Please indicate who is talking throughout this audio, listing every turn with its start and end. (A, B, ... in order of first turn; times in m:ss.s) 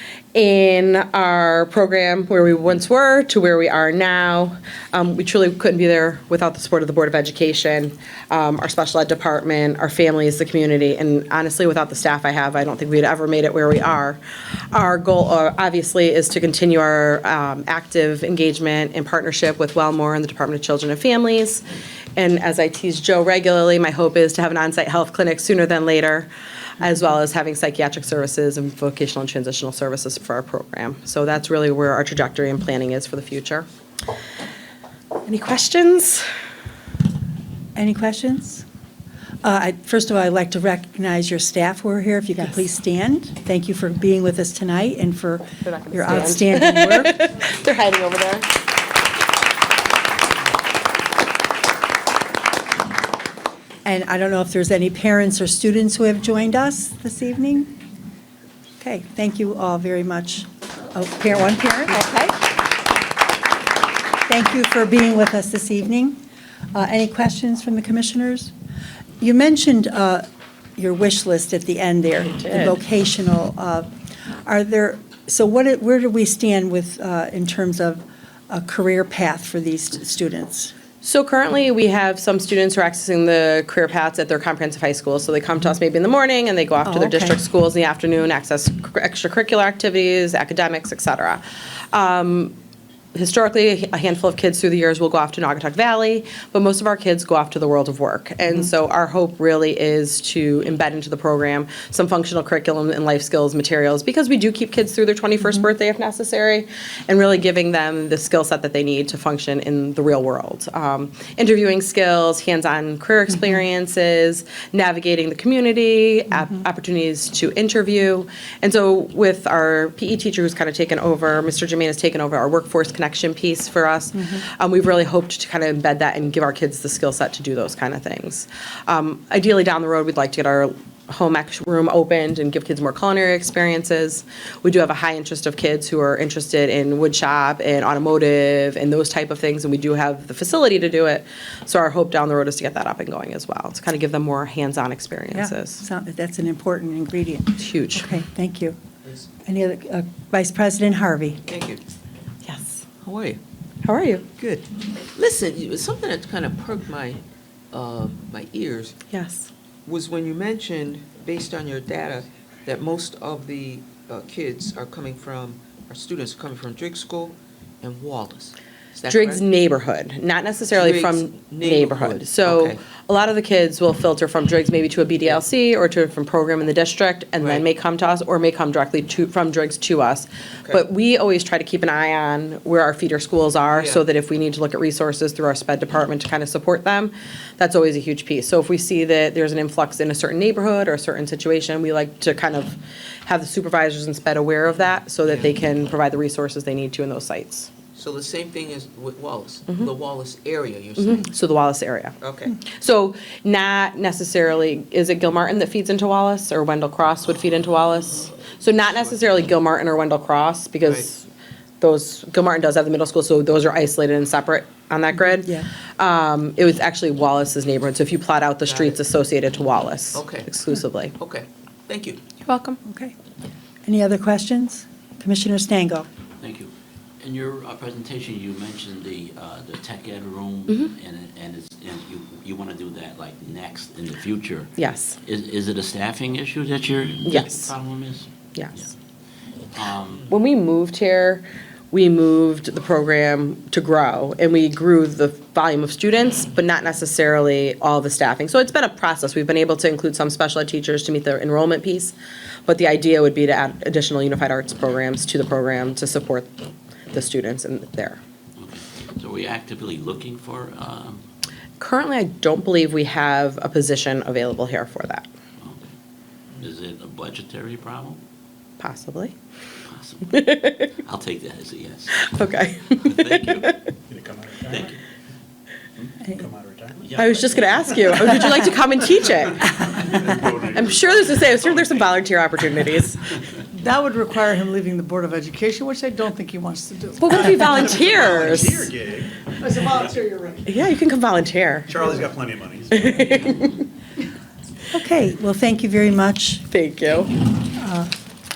0:00.3-0:14.2 A
0:14.7-0:21.6 A
0:22.2-0:26.3 A
0:26.8-0:33.7 A
0:35.3-0:36.3 A
0:37.8-0:38.6 B
0:39.4-0:47.2 B
0:45.6-0:48.5 A
0:53.8-0:57.8 B
0:58.8-1:02.6 B
1:04.3-1:06.2 B
1:06.7-1:08.5 B
1:09.2-1:10.3 B
1:10.8-1:13.9 B
1:12.3-1:12.8 A
1:14.5-1:20.7 B
1:21.0-1:32.6 A
1:26.8-1:27.4 B
1:33.2-2:25.8 A
2:25.3-2:28.8 B
2:27.6-2:28.1 A
2:29.4-2:31.4 B
2:31.5-2:31.8 C
2:32.4-2:32.8 A
2:33.0-2:33.4 C
2:33.8-2:34.3 A
2:34.4-2:39.0 C
2:39.1-2:39.5 A
2:39.9-2:49.4 C
2:49.1-3:17.7 A
2:50.7-2:52.8 C
2:57.4-2:57.6 C
3:03.7-3:04.0 C
3:15.2-3:15.5 C
3:18.0-3:21.3 C
3:21.0-3:31.3 A
3:22.2-3:22.6 C
3:30.8-3:31.1 C
3:31.8-3:41.2 A
3:38.6-3:39.0 C
3:40.1-3:40.5 C
3:41.2-3:42.2 C
3:42.4-3:42.8 A
3:42.8-3:43.2 B
3:43.8-3:46.1 B
3:46.4-3:54.7 D
3:54.8-3:55.2 A
3:55.2-3:58.9 D
3:57.2-3:57.7 A
3:59.8-4:00.3 D
4:00.3-4:12.2 A
4:12.7-4:16.5 A
4:17.1-4:18.2 A
4:18.6-4:21.2 D
4:21.8-4:25.3 A
4:26.6-4:28.2 D
4:28.8-4:29.4 A
4:29.9-4:30.5 D
4:30.3-4:30.9 A
4:31.0-4:32.3 D
4:32.2-4:33.9 A
4:33.0-4:33.7 D
4:34.1-4:35.0 E
4:34.7-4:35.0 D
4:36.0-4:37.1 E
4:37.0-4:37.9 D
4:37.2-4:43.3 A
4:40.1-4:42.0 E
4:43.7-4:48.2 F
4:47.2-4:48.9 A
4:48.0-4:49.5 E
4:49.6-4:50.6 F
4:50.6-4:52.0 A
4:51.9-4:53.3 E
4:52.9-4:53.8 A
4:54.9-4:56.7 B
4:56.7-4:57.3 A
4:57.8-4:58.1 B